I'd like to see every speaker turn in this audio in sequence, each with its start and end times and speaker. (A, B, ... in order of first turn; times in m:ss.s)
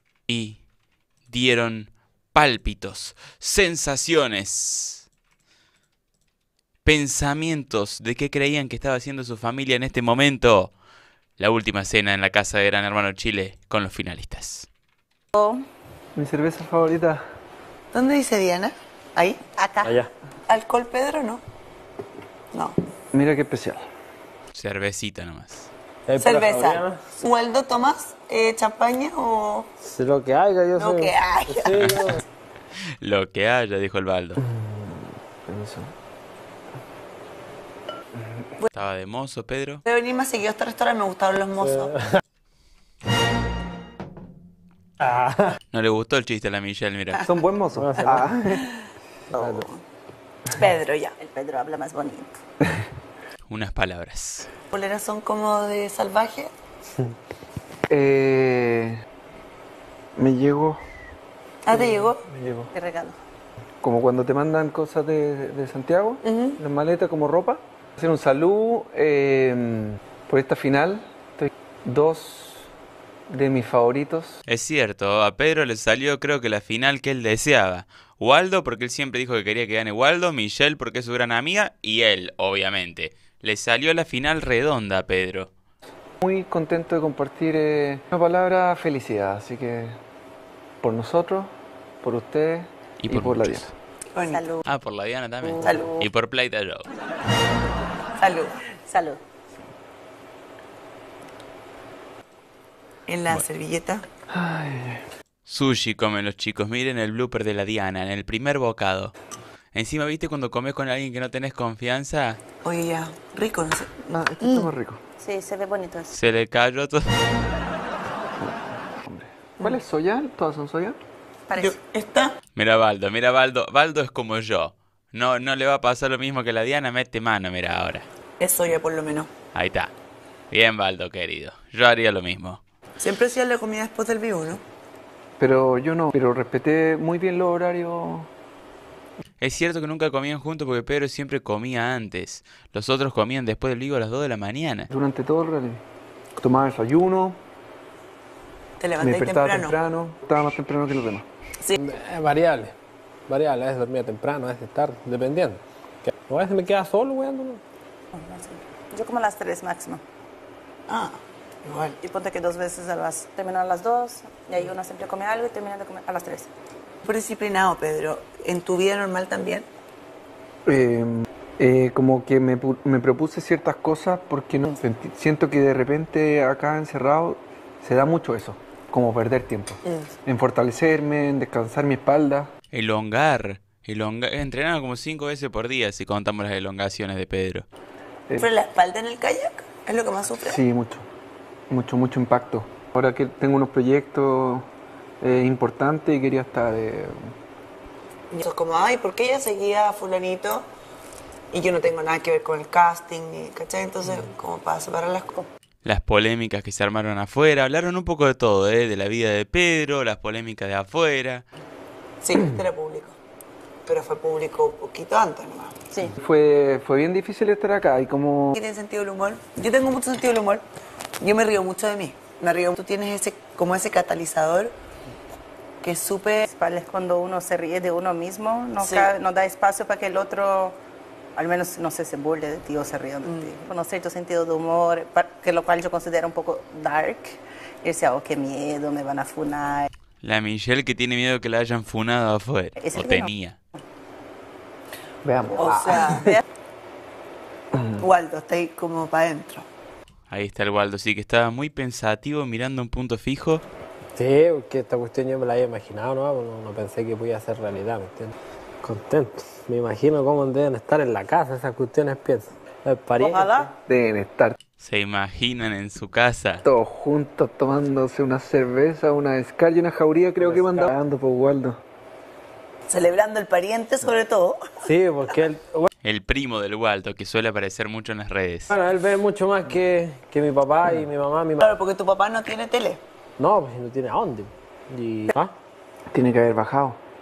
0:00.3-0:00.6 A
0:01.3-0:05.1 A
0:06.8-0:10.7 A
0:11.4-0:14.7 A
0:15.4-0:15.6 B
0:16.2-0:17.2 C
0:17.9-0:19.4 D
0:19.6-0:19.9 B
0:19.8-0:20.1 E
0:20.5-0:21.4 D
0:23.1-0:23.9 C
0:24.5-0:25.7 A
0:26.1-0:27.0 E
0:26.2-0:29.7 D
0:29.8-0:32.2 E
0:30.8-0:32.2 D
0:33.0-0:34.4 A
0:34.4-0:35.9 C
0:38.2-0:38.4 C
0:38.7-0:39.8 A
0:39.8-0:42.0 D
0:45.0-0:45.6 E
0:45.7-0:47.2 A
0:47.3-0:48.6 C
0:47.8-0:48.3 E
0:49.3-0:49.7 D
0:49.4-0:49.8 B
0:50.5-0:51.2 D
0:51.2-0:52.4 B
0:53.5-0:54.5 A
0:54.7-0:56.5 D
0:57.9-0:59.0 C
1:00.2-1:00.8 C
1:01.6-1:02.2 D
1:01.7-1:02.7 C
1:02.7-1:03.2 B
1:03.8-1:12.7 C
1:06.2-1:06.6 D
1:13.3-1:14.4 C
1:14.5-1:25.5 A
1:26.2-1:30.0 C
1:30.8-1:33.7 C
1:33.0-1:33.7 A
1:34.1-1:34.6 D
1:34.2-1:34.6 B
1:34.6-1:36.9 A
1:35.5-1:36.1 B
1:35.6-1:35.9 D
1:38.2-1:38.6 D
1:38.9-1:39.2 B
1:43.1-1:44.1 D
1:44.3-1:45.1 C
1:45.5-1:49.1 A
1:49.7-1:52.4 A
1:52.6-1:54.7 D
1:54.0-1:55.0 C
1:55.2-1:56.1 B
1:56.1-1:57.1 A
1:58.4-2:01.0 C
2:01.5-2:01.8 B
2:01.6-2:02.4 D
2:02.6-2:08.1 A
2:08.4-2:09.3 D
2:09.5-2:09.9 A
2:10.5-2:12.6 A
2:13.0-2:14.6 D
2:15.4-2:18.3 C
2:19.4-2:24.9 A
2:24.9-2:25.8 C
2:26.4-2:27.4 C
2:28.8-2:29.8 D
2:29.0-2:31.3 C
2:31.8-2:32.7 E
2:33.3-2:37.6 E
2:38.1-2:40.0 B
2:40.9-2:42.0 D
2:42.0-2:46.5 B
2:47.0-2:49.7 D
2:50.7-3:02.5 C
3:02.7-3:07.7 A
3:08.4-3:10.6 D
3:10.4-3:11.1 C
3:11.7-3:14.7 C
3:15.2-3:17.3 C
3:18.3-3:20.7 D
3:21.5-3:25.4 D
3:25.8-3:31.4 A
3:32.2-3:33.2 D
3:33.9-3:35.8 D
3:36.2-3:38.6 C
3:38.6-3:40.6 D
3:41.2-3:44.7 D
3:45.8-3:46.5 D
3:46.5-3:50.8 B
3:48.8-3:49.1 D
3:51.4-3:59.9 B
3:53.2-3:53.5 D
4:00.2-4:03.6 A
4:02.8-4:03.3 B
4:05.2-4:06.4 C
4:05.6-4:06.3 D
4:07.7-4:08.0 C
4:08.0-4:09.6 D
4:10.3-4:13.6 A
4:14.2-4:23.7 E
4:23.2-4:23.7 B
4:23.9-4:24.6 C
4:24.8-4:26.6 A
4:26.6-4:31.8 C
4:30.4-4:30.9 E
4:32.9-4:34.7 D
4:34.8-4:35.9 E
4:36.0-4:38.7 A
4:38.7-4:41.7 E
4:41.6-4:43.0 D
4:43.4-4:45.5 E
4:46.1-4:47.0 C